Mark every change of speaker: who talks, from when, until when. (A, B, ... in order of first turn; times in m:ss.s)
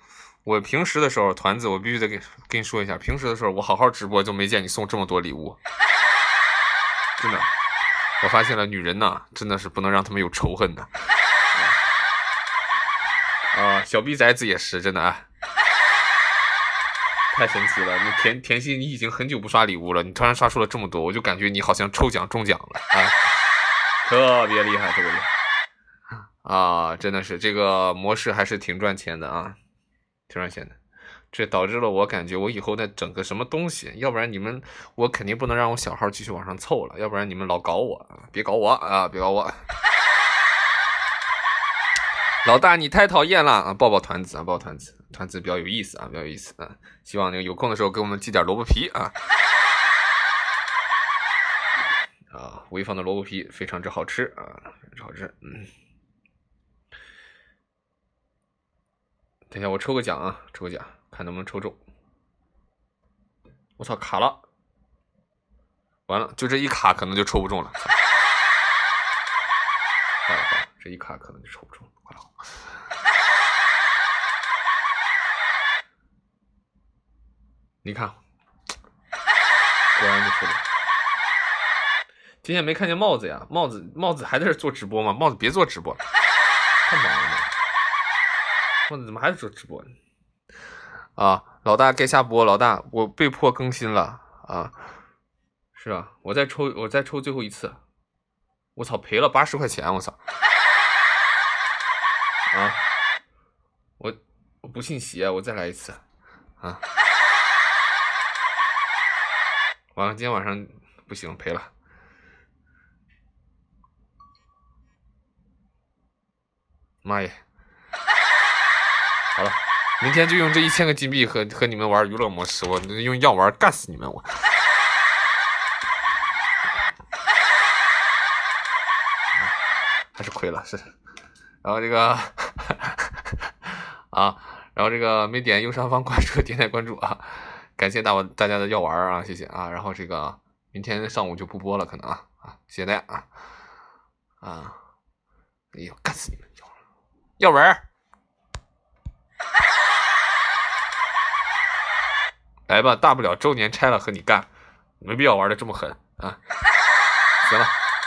0:00.4-0:05.6 A
0:07.2-0:07.5 A
0:08.2-0:10.9 A
0:11.5-0:11.8 A
0:13.5-0:15.3 A
0:17.3-0:23.2 A
0:24.0-0:25.3 A
0:26.4-0:29.6 A
0:30.3-0:30.8 A
0:31.3-0:39.6 A
0:42.4-0:49.2 A
0:52.3-0:55.7 A
0:59.5-1:01.8 A
1:03.8-1:04.4 A
1:06.1-1:07.9 A
1:10.2-1:12.3 A
1:17.8-1:18.2 A
1:20.0-1:20.6 A
1:22.4-1:26.0 A
1:26.8-1:27.5 A
1:28.9-1:29.9 A
1:31.2-1:34.8 A
1:35.8-1:37.8 A
1:38.8-1:40.2 A
1:42.5-1:42.8 A
1:44.0-1:46.0 A
1:50.0-1:51.7 A
1:57.0-1:57.4 A
1:59.4-2:04.3 A
2:10.2-2:10.9 A
2:11.6-2:13.1 A
2:14.1-2:23.3 A
2:24.4-2:24.8 A
2:25.7-2:26.7 A
2:27.4-2:27.8 A
2:32.7-2:34.5 A
2:35.0-2:36.4 A
2:37.4-2:37.7 A